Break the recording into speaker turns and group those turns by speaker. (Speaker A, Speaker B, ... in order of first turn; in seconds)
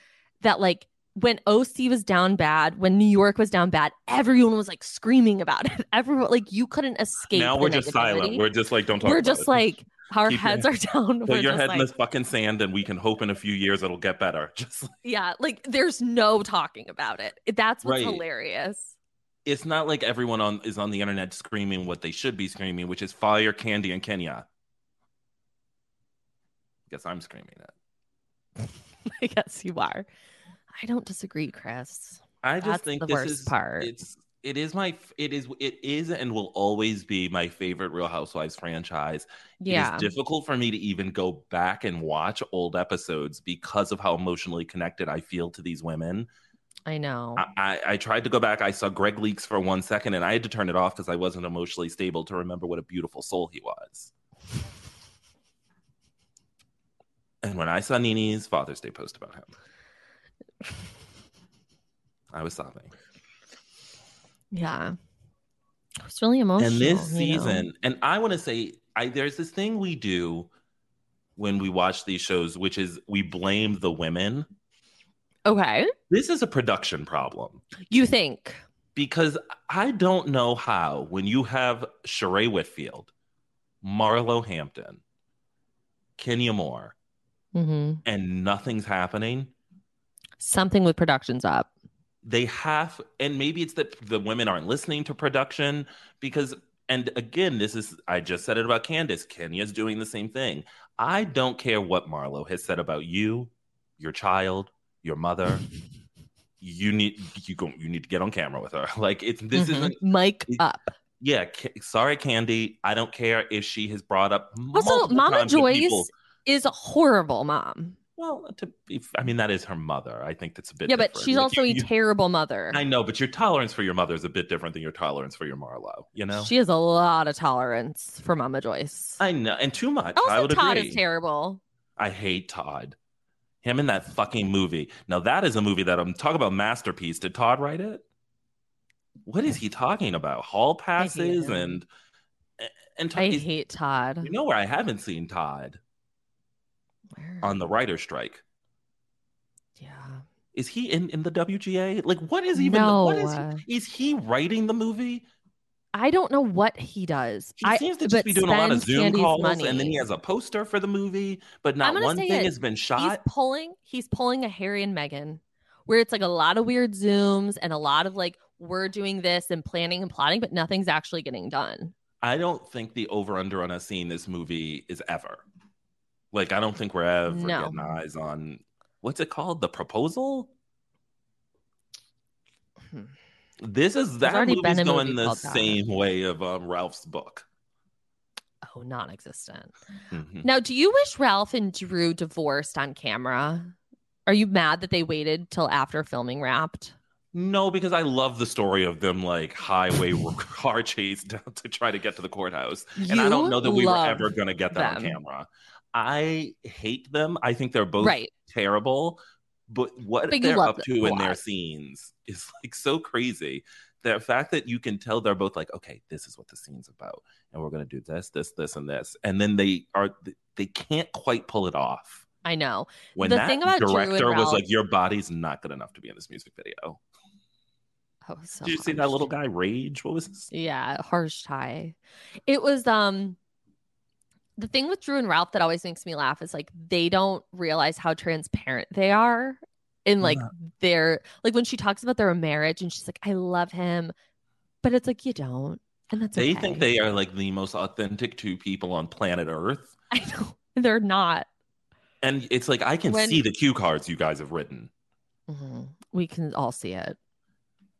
Speaker A: 0.4-8.4, 9.0-11.9, 15.0-18.9, 28.6-30.1, 30.7-33.9, 39.6-40.1, 46.9-47.4, 64.5-65.0, 66.0-67.7, 75.4-75.9, 77.9-78.6, 87.5-88.0, 90.4-91.7, 109.5-110.9, 114.7-118.0, 120.8-122.8, 126.3-129.2, 130.2-131.6, 141.0-141.8, 143.2-144.3, 147.1-147.6, 149.8-150.2, 152.5-153.6, 155.9-160.0, 161.8-171.9, 177.3-177.9, 184.2-185.8, 188.6-189.7, 190.4-193.7, 194.3-196.9, 203.0-205.2, 208.0-208.3, 210.3-211.4, 222.4-224.6, 228.2-229.3, 230.5-231.9, 232.5-233.4, 234.6-244.1, 244.8-246.9, 250.1-251.5, 253.1-253.4, 255.5-257.2
Speaker B: 7.3-9.7, 10.2-10.7, 11.2-14.9, 17.8-18.2, 19.4-24.4, 26.9-27.7, 32.4-46.3, 47.4-54.1, 57.4-59.5, 62.3-62.9, 66.6-70.5, 71.4-74.5, 76.1-77.6, 78.9-83.1, 83.8-85.0, 86.2-86.9, 88.0-89.5, 92.2-105.6, 106.6-110.6, 111.2-116.1, 118.2-121.9, 122.7-126.5, 129.2-131.0, 132.0-132.9, 133.6-138.0, 139.2-141.9, 142.6-143.4, 144.2-145.8, 147.4-148.4, 150.5-155.2, 157.6-163.2, 172.2-175.4, 176.3-180.5, 183.6-187.4, 190.1-190.5, 197.3-222.2, 223.2-227.0, 228.6-230.5, 240.2-240.5, 246.3-249.9, 252.2-254.9